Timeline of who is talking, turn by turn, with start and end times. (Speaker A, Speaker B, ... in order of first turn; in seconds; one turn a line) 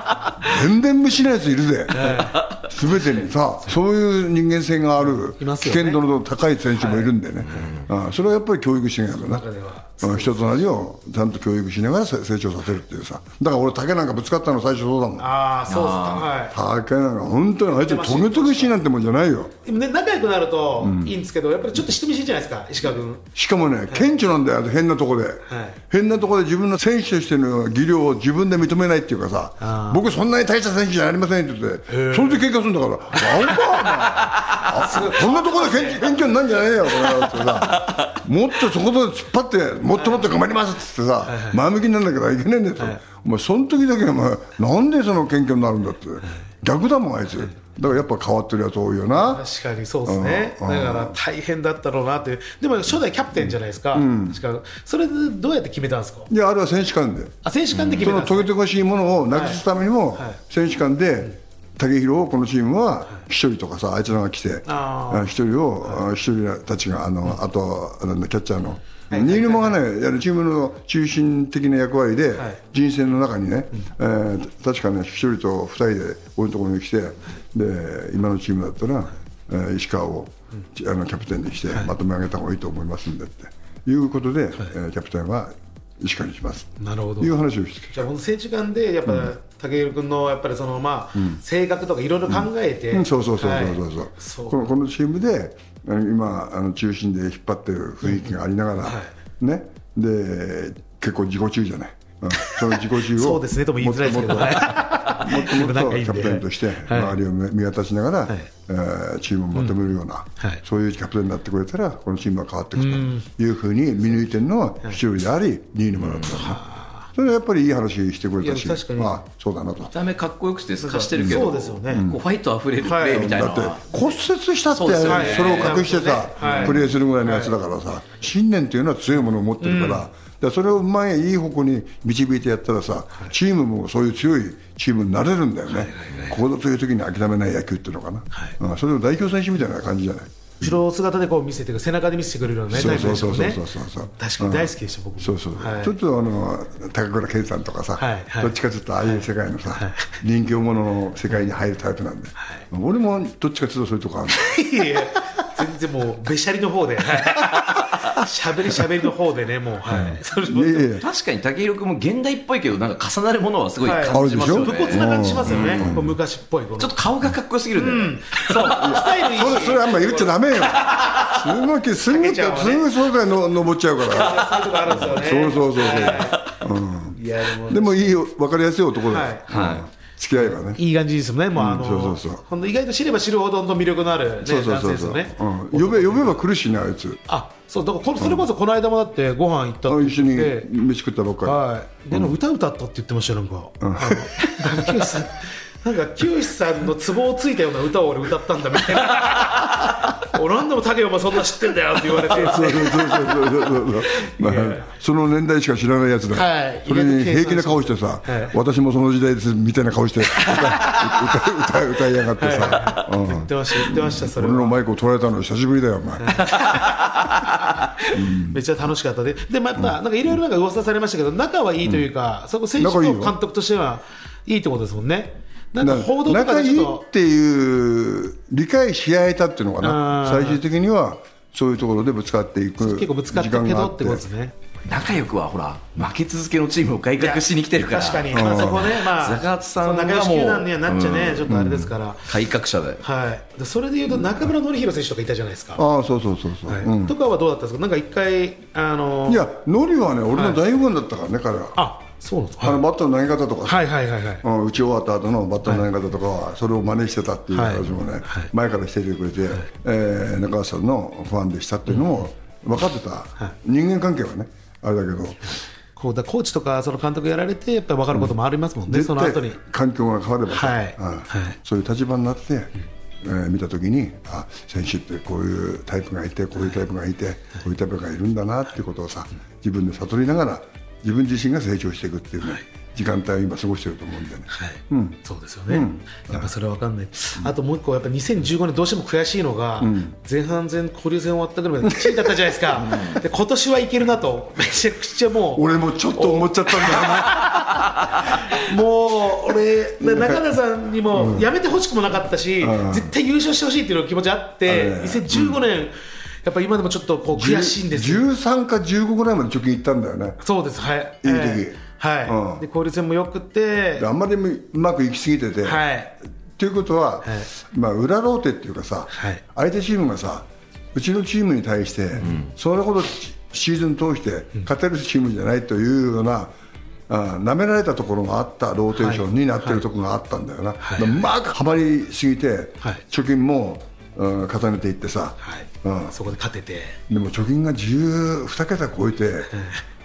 Speaker A: 0.4-9.4
Speaker B: 1.9-2.4
Speaker C: 2.3-2.7
Speaker B: 5.4-6.0
Speaker B: 6.7-7.7
Speaker C: 7.5-7.8
Speaker B: 9.3-10.5
Speaker A: 10.0-15.3
Speaker B: 15.2-16.5
Speaker C: 15.7-16.3
Speaker A: 16.5-19.5
Speaker B: 17.7-18.8
Speaker B: 19.6-23.3
Speaker A: 20.8-21.1
Speaker A: 23.3-49.4
Speaker B: 23.9-24.2
Speaker B: 25.5-25.8
Speaker B: 29.6-30.0
Speaker B: 31.9-32.4
Speaker B: 33.2-33.8
Speaker B: 34.8-36.1
Speaker B: 41.2-41.6
Speaker B: 49.1-56.3
Speaker A: 50.0-51.1
Speaker A: 53.4-54.4
Speaker A: 56.3-57.4
Speaker B: 57.4-58.5
Speaker A: 57.9-88.1
Speaker B: 59.3-59.6
Speaker B: 64.7-65.3
Speaker B: 69.1-69.8
Speaker B: 86.8-87.3
Speaker B: 87.9-94.6
Speaker A: 92.3-116.6
Speaker B: 98.0-99.1
Speaker B: 102.4-107.2
Speaker B: 112.8-113.2
Speaker C: 116.0-116.4
Speaker B: 116.3-117.0
Speaker A: 117.1-119.9
Speaker B: 118.4-119.2
Speaker C: 119.9-123.9
Speaker B: 120.8-122.1
Speaker A: 121.2-122.2
Speaker B: 122.8-123.4
Speaker A: 123.1-140.8
Speaker C: 124.7-125.9
Speaker B: 125.0-127.5
Speaker C: 126.4-126.8
Speaker B: 129.6-130.1
Speaker B: 135.7-136.4
Speaker B: 140.6-145.9
Speaker A: 142.7-155.1
Speaker B: 148.0-150.2
Speaker B: 154.3-161.0
Speaker A: 159.9-161.0
Speaker C: 161.0-165.9
Speaker B: 163.8-167.0
Speaker A: 164.1-166.2
Speaker C: 166.8-169.0
Speaker B: 167.7-171.0
Speaker A: 168.7-180.8
Speaker B: 172.1-172.9
Speaker B: 174.0-176.4
Speaker C: 174.3-174.9
Speaker C: 175.8-176.3
Speaker B: 177.2-178.0
Speaker B: 179.1-179.4
Speaker C: 179.5-179.8
Speaker B: 180.4-186.3
Speaker A: 181.5-182.4
Speaker A: 184.4-187.2
Speaker B: 187.3-190.7
Speaker A: 188.2-188.4
Speaker A: 189.9-191.6
Speaker B: 191.4-204.8
Speaker A: 193.8-195.0
Speaker A: 202.2-216.5
Speaker B: 206.3-208.5
Speaker B: 210.4-211.1
Speaker B: 212.3-214.8
Speaker B: 216.2-227.0
Speaker A: 218.1-218.6
Speaker A: 222.8-223.3
Speaker A: 225.8-234.2
Speaker B: 229.8-230.6
Speaker B: 232.8-234.5
Speaker C: 234.8-241.5
Speaker B: 237.2-242.3
Speaker A: 238.3-239.0
Speaker A: 241.4-241.9
Speaker C: 242.3-243.0
Speaker B: 243.0-245.8
Speaker A: 245.8-247.2
Speaker B: 246.7-249.4
Speaker A: 249.3-251.8
Speaker B: 250.3-250.6
Speaker B: 251.8-252.8
Speaker A: 252.6-253.9
Speaker B: 253.7-254.4
Speaker A: 254.4-265.4
Speaker B: 257.5-258.5
Speaker B: 265.9-269.6
Speaker A: 268.9-286.5
Speaker B: 270.5-271.6
Speaker B: 284.5-308.2
Speaker A: 289.8-290.1
Speaker A: 291.8-292.3
Speaker A: 292.9-293.2
Speaker A: 295.5-297.6
Speaker A: 300.0-300.4
Speaker A: 301.1-301.5
Speaker A: 302.6-303.1
Speaker A: 304.6-305.6
Speaker A: 307.3-310.4
Speaker B: 310.4-314.1
Speaker A: 311.2-312.6
Speaker A: 314.0-315.9
Speaker B: 315.6-316.1
Speaker A: 316.6-326.5
Speaker B: 319.1-319.4
Speaker C: 322.2-322.5
Speaker A: 327.1-336.1
Speaker B: 328.9-329.8
Speaker B: 330.8-331.3
Speaker B: 335.4-337.0
Speaker A: 337.1-339.5
Speaker B: 339.5-339.8